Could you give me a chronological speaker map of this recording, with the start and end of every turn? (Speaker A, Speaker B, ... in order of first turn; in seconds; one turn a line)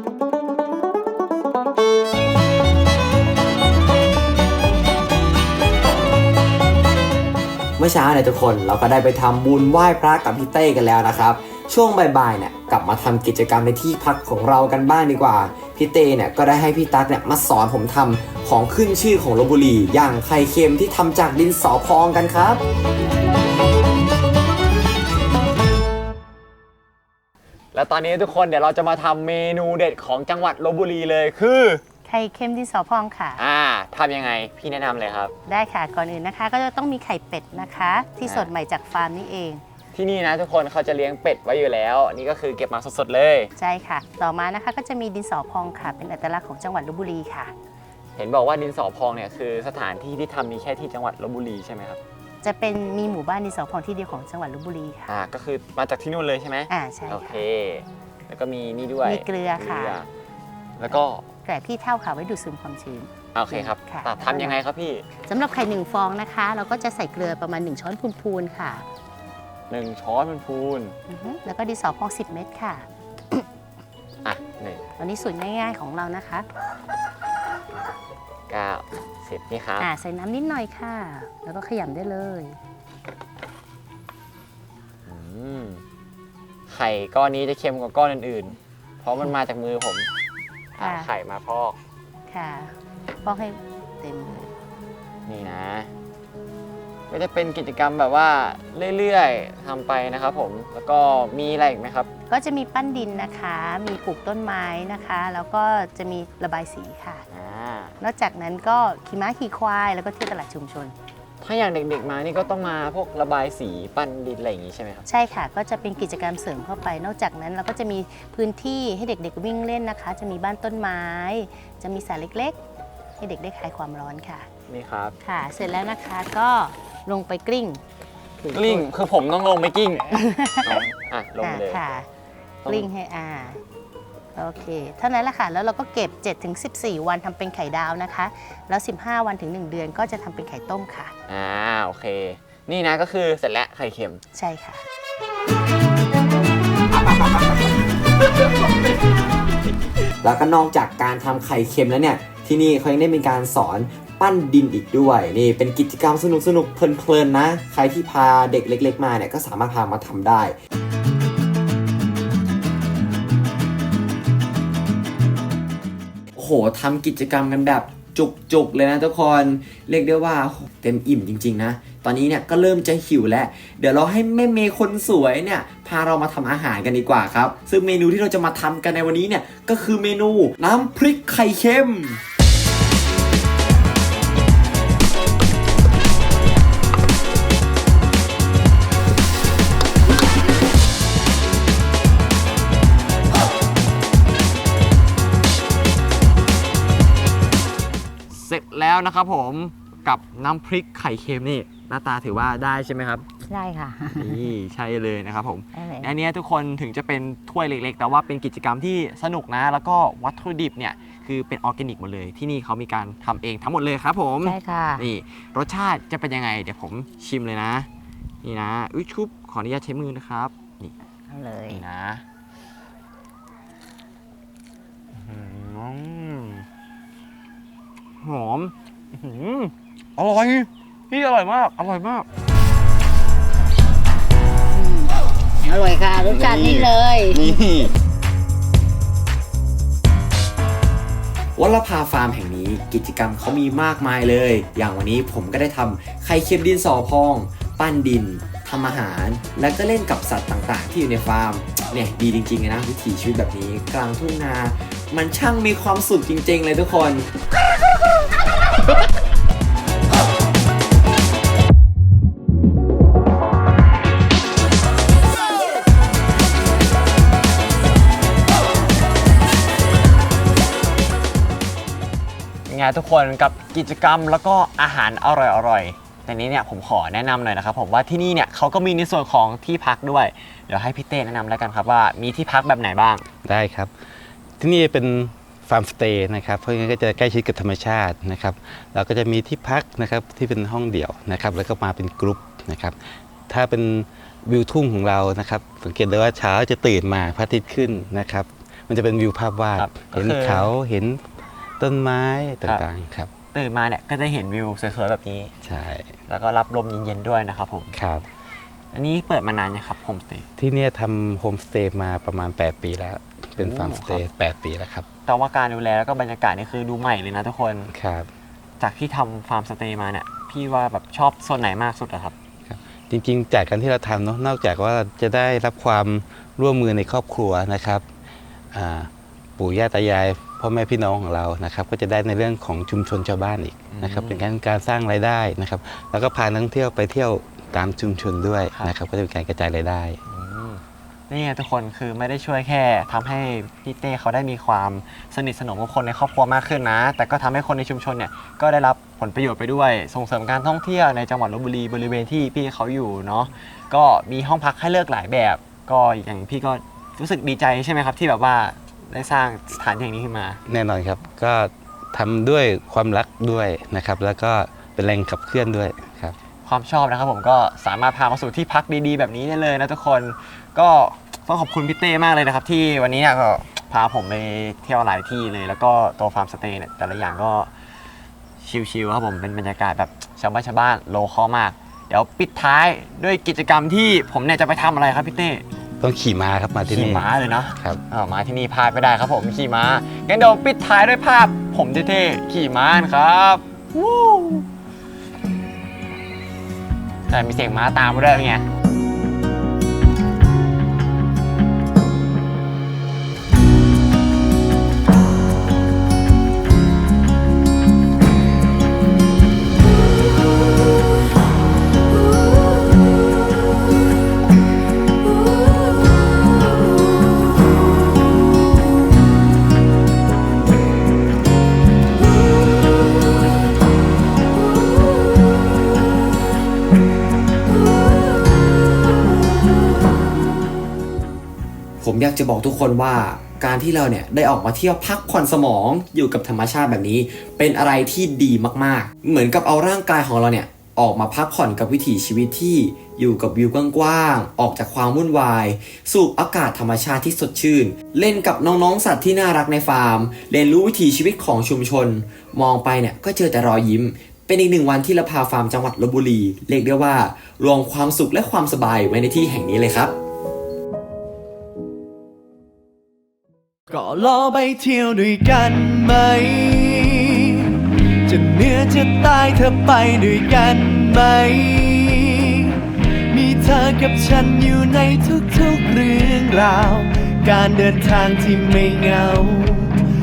Speaker A: 7.8-22.6
Speaker B: 27.7-31.8
Speaker C: 32.0-33.4
Speaker B: 33.4-35.3
Speaker C: 35.5-39.6
Speaker B: 38.2-38.5
Speaker B: 39.9-43.5
Speaker C: 43.5-47.5
Speaker B: 48.2-52.0
Speaker C: 52.4-55.1
Speaker B: 55.1-60.0
Speaker C: 56.7-57.4
Speaker C: 59.0-60.0
Speaker B: 60.8-61.2
Speaker C: 61.4-64.6
Speaker B: 63.3-65.0
Speaker C: 65.2-68.8
Speaker B: 69.7-70.9
Speaker C: 71.1-73.4
Speaker B: 74.2-74.8
Speaker C: 75.0-76.5
Speaker B: 78.5-79.9
Speaker C: 79.8-82.6
Speaker B: 85.1-85.8
Speaker B: 86.7-90.1
Speaker B: 90.8-91.8
Speaker C: 90.8-91.1
Speaker C: 92.3-94.5
Speaker B: 95.3-95.9
Speaker B: 97.1-102.1
Speaker C: 102.3-107.2
Speaker B: 107.3-107.9
Speaker C: 108.0-110.9
Speaker B: 111.4-115.0
Speaker C: 115.0-122.6
Speaker C: 123.2-124.5
Speaker B: 124.7-125.1
Speaker C: 125.2-127.8
Speaker C: 128.4-128.8
Speaker B: 128.5-131.8
Speaker C: 130.1-130.8
Speaker C: 131.4-132.1
Speaker C: 132.7-133.6
Speaker C: 134.3-141.1
Speaker B: 141.3-144.2
Speaker C: 144.3-144.8
Speaker A: 150.2-160.6
Speaker A: 166.3-182.2
Speaker B: 198.4-203.2
Speaker C: 203.5-204.4
Speaker B: 204.2-217.9
Speaker A: 204.7-205.3
Speaker C: 205.7-206.1
Speaker A: 206.3-206.9
Speaker A: 208.4-209.4
Speaker C: 214.4-215.1
Speaker B: 218.4-220.9
Speaker C: 221.3-221.8
Speaker B: 221.7-222.2
Speaker B: 225.2-226.6
Speaker B: 228.2-232.2
Speaker C: 234.7-237.6
Speaker B: 236.2-237.9
Speaker A: 241.6-257.3
Speaker B: 272.7-283.2
Speaker D: 283.4-283.9
Speaker D: 284.6-301.2
Speaker B: 299.8-300.7
Speaker D: 301.8-303.3
Speaker B: 303.5-305.5
Speaker D: 305.6-306.1
Speaker B: 306.3-307.9
Speaker D: 307.9-308.2
Speaker B: 308.9-310.4
Speaker D: 310.6-315.1
Speaker B: 313.6-314.2
Speaker B: 315.3-317.9
Speaker D: 317.9-318.3
Speaker B: 318.8-322.3
Speaker D: 322.7-328.0
Speaker D: 328.7-340.2
Speaker B: 333.9-334.4
Speaker B: 340.3-360.6
Speaker D: 360.7-366.4
Speaker B: 366.6-377.7
Speaker B: 378.6-385.6
Speaker D: 386.0-388.0
Speaker B: 386.9-394.6
Speaker B: 397.3-398.6
Speaker A: 432.0-460.1
Speaker E: 463.9-480.0